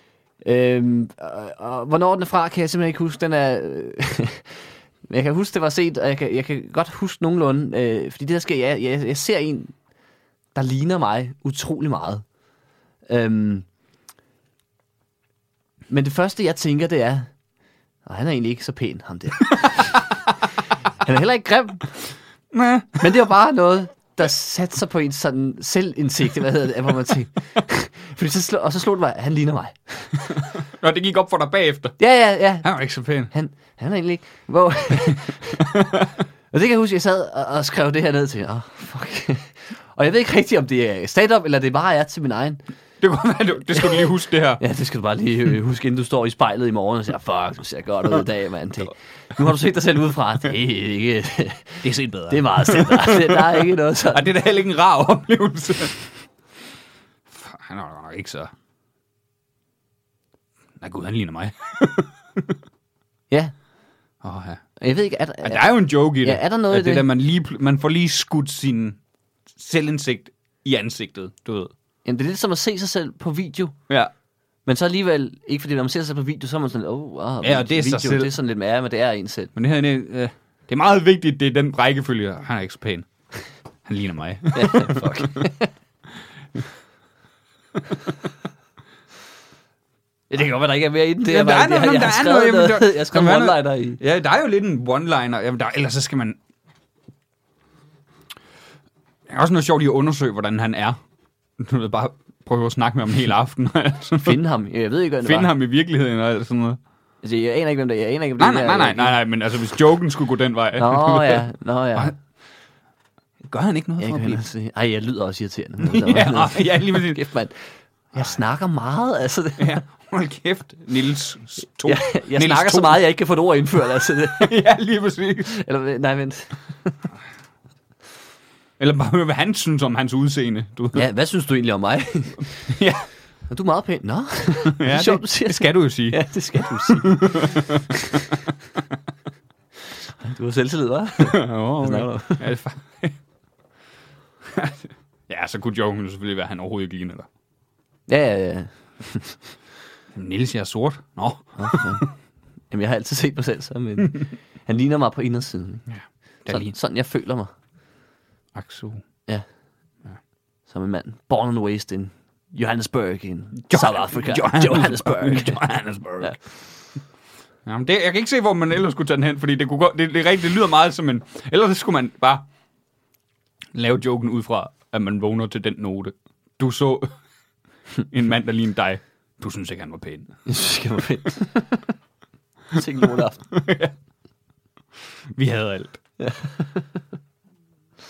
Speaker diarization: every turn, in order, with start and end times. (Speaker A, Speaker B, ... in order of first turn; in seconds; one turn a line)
Speaker A: 0.4-9.7
Speaker A: 10.5-12.2
Speaker A: 13.1-13.7
Speaker A: 15.9-17.3
Speaker A: 18.1-20.1
Speaker A: 21.0-21.9
Speaker B: 22.5-23.1
Speaker A: 23.0-30.3
Speaker B: 30.7-32.0
Speaker A: 32.0-32.7
Speaker B: 32.6-33.3
Speaker A: 33.3-35.7
Speaker B: 35.0-36.1
Speaker A: 36.5-42.6
Speaker B: 43.0-44.6
Speaker A: 44.6-54.3
Speaker B: 51.8-56.0
Speaker B: 57.3-58.5
Speaker B: 60.8-62.5
Speaker B: 64.2-64.6
Speaker A: 64.8-67.1
Speaker B: 65.4-69.0
Speaker B: 69.5-71.7
Speaker A: 72.0-73.7
Speaker A: 74.7-79.5
Speaker B: 77.4-78.3
Speaker B: 79.5-83.1
Speaker B: 83.9-85.5
Speaker A: 84.5-85.7
Speaker A: 90.3-94.0
Speaker B: 91.2-96.4
Speaker B: 99.3-101.0
Speaker B: 101.6-104.4
Speaker A: 104.2-105.5
Speaker B: 105.2-106.8
Speaker A: 107.2-109.2
Speaker B: 108.4-112.1
Speaker A: 110.8-112.1
Speaker B: 113.4-114.4
Speaker A: 114.0-119.8
Speaker B: 115.8-117.2
Speaker B: 119.6-123.0
Speaker A: 121.8-124.5
Speaker B: 124.3-125.5
Speaker A: 125.5-127.0
Speaker B: 128.8-131.1
Speaker A: 130.9-132.5
Speaker B: 132.7-133.1
Speaker A: 133.5-138.3
Speaker B: 134.8-137.8
Speaker A: 140.2-142.4
Speaker B: 141.2-143.2
Speaker B: 144.5-147.3
Speaker A: 148.1-149.4
Speaker B: 150.1-152.1
Speaker A: 151.6-152.1
Speaker A: 152.7-155.8
Speaker B: 155.9-156.7
Speaker A: 156.5-157.5
Speaker B: 158.5-159.0
Speaker A: 160.7-165.6
Speaker B: 163.6-166.4
Speaker B: 167.6-172.5
Speaker B: 173.8-177.1
Speaker B: 178.0-180.3
Speaker A: 180.5-181.9
Speaker A: 182.7-183.4
Speaker B: 183.5-183.9
Speaker B: 185.3-186.0
Speaker A: 186.2-186.8